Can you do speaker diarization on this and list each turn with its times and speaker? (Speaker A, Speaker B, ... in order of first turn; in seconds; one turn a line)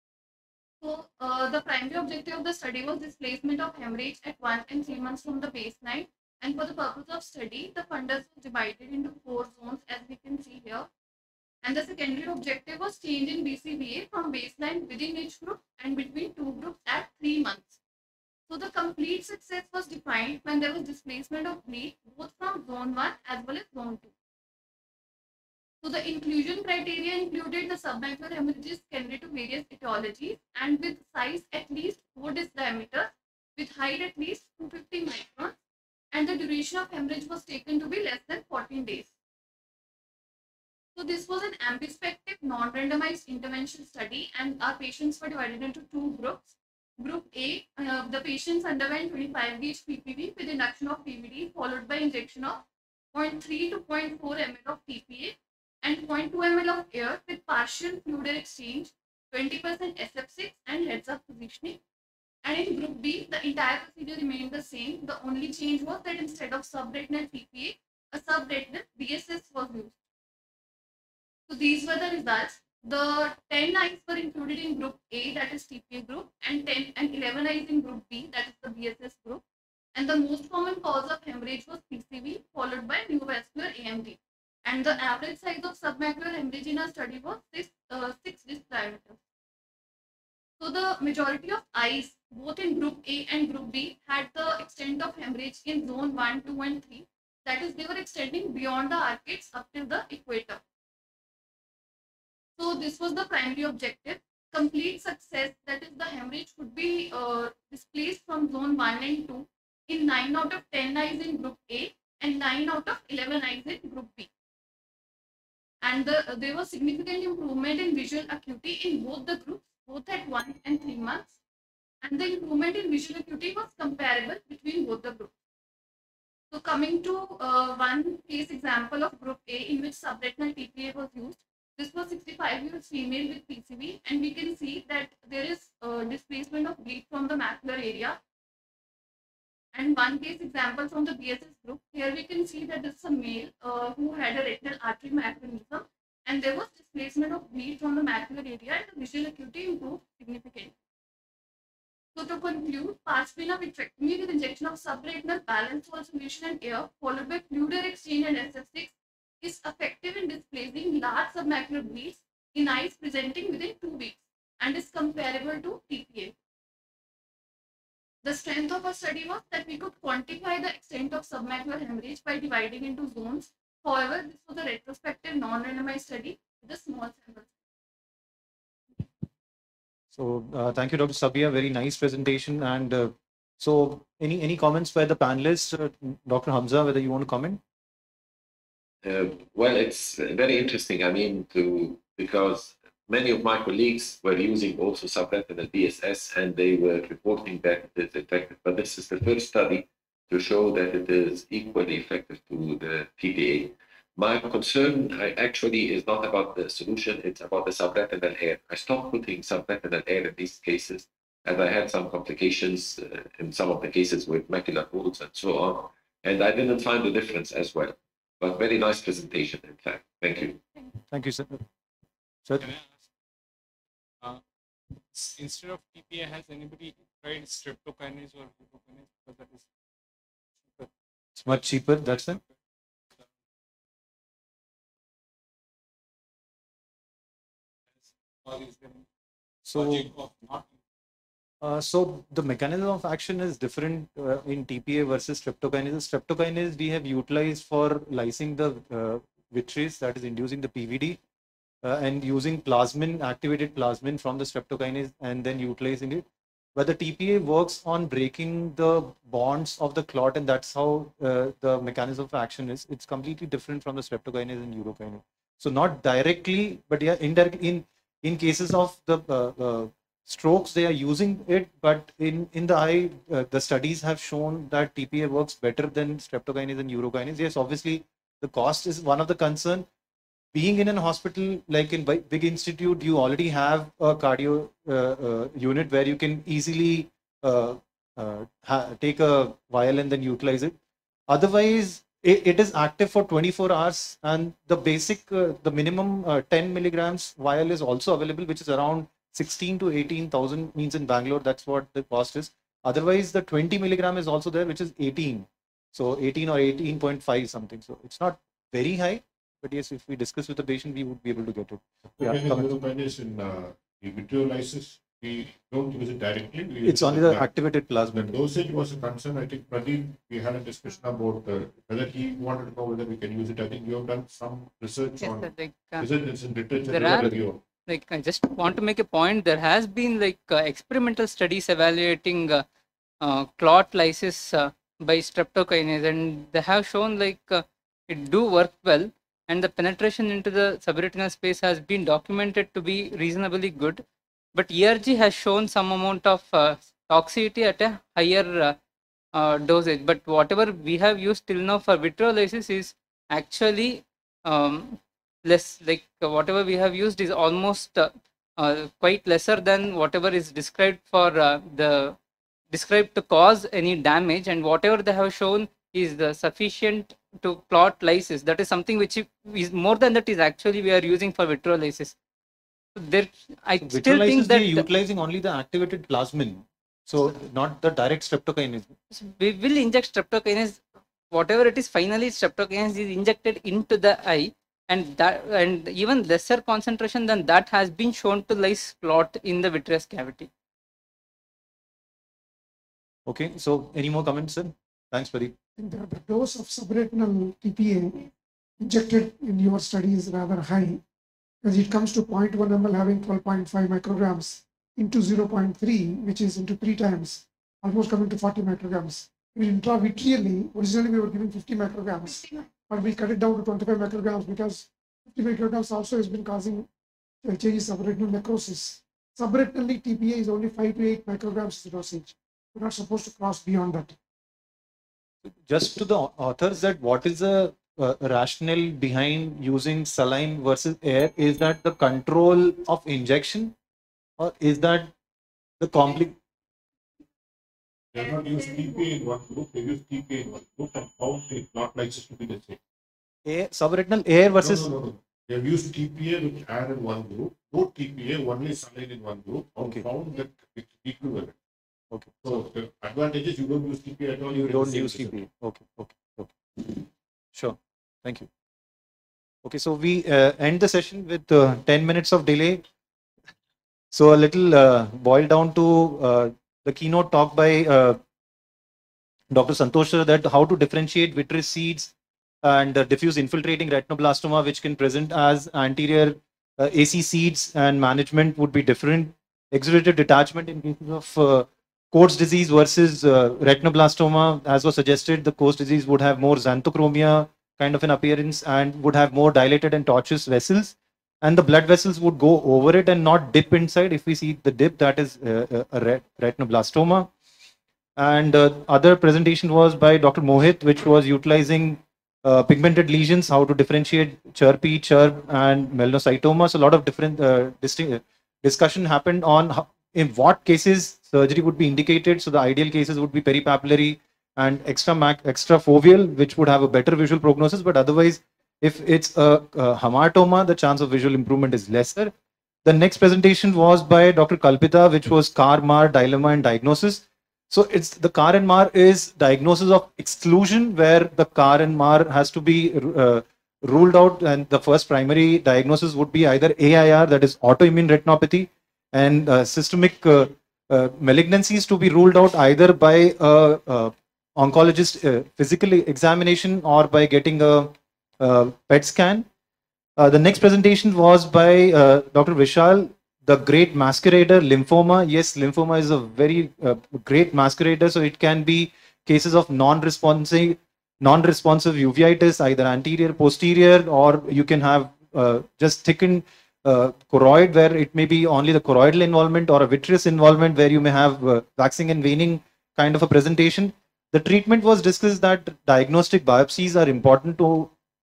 Speaker A: 0.8-10.9
Speaker A: 11.6-17.8
Speaker A: 18.5-24.1
Speaker A: 25.8-35.5
Speaker A: 36.1-39.1
Speaker A: 41.0-52.6
Speaker A: 53.1-61.8
Speaker A: 62.4-69.9
Speaker A: 71.5-79.4
Speaker A: 79.9-89.2
Speaker A: 90.6-100.6
Speaker A: 102.6-114.3
Speaker A: 115.8-121.3
Speaker A: 122.0-125.3
Speaker A: 126.5-138.2
Speaker A: 139.7-150.7
Speaker A: 152.1-166.3
Speaker A: 168.2-177.5
Speaker B: 180.1-187.6
Speaker C: 189.0-220.6
Speaker B: 221.1-221.6
Speaker D: 222.6-222.9
Speaker D: 225.1-229.7
Speaker B: 231.4-232.4
Speaker D: 231.6-232.5
Speaker D: 238.4-239.0
Speaker B: 239.7-240.1
Speaker D: 239.7-240.7
Speaker B: 241.6-251.2
Speaker B: 251.8-256.2
Speaker B: 256.8-279.9
Speaker B: 280.5-290.7
Speaker B: 291.3-312.7
Speaker E: 312.2-317.6
Speaker B: 316.8-318.4
Speaker E: 318.1-327.6
Speaker F: 325.2-326.1
Speaker F: 326.8-332.6
Speaker F: 333.2-344.0
Speaker F: 344.5-348.8
Speaker F: 349.3-362.2
Speaker F: 362.7-372.1
Speaker F: 372.9-374.9
Speaker B: 373.8-378.9
Speaker F: 379.1-390.5
Speaker B: 393.3-395.5
Speaker G: 395.8-398.3
Speaker G: 398.8-401.0
Speaker G: 401.6-416.9
Speaker G: 417.4-424.1
Speaker B: 425.4-433.7
Speaker B: 434.4-435.1
Speaker B: 435.8-436.4
Speaker E: 438.1-442.8
Speaker B: 443.5-444.9
Speaker E: 444.6-451.6
Speaker B: 449.8-450.1
Speaker B: 452.1-452.6
Speaker E: 452.4-455.4
Speaker B: 454.5-458.5
Speaker B: 459.6-462.9
Speaker B: 464.1-468.2
Speaker B: 469.5-497.3
Speaker B: 498.2-522.3
Speaker B: 522.8-549.5
Speaker B: 550.2-577.9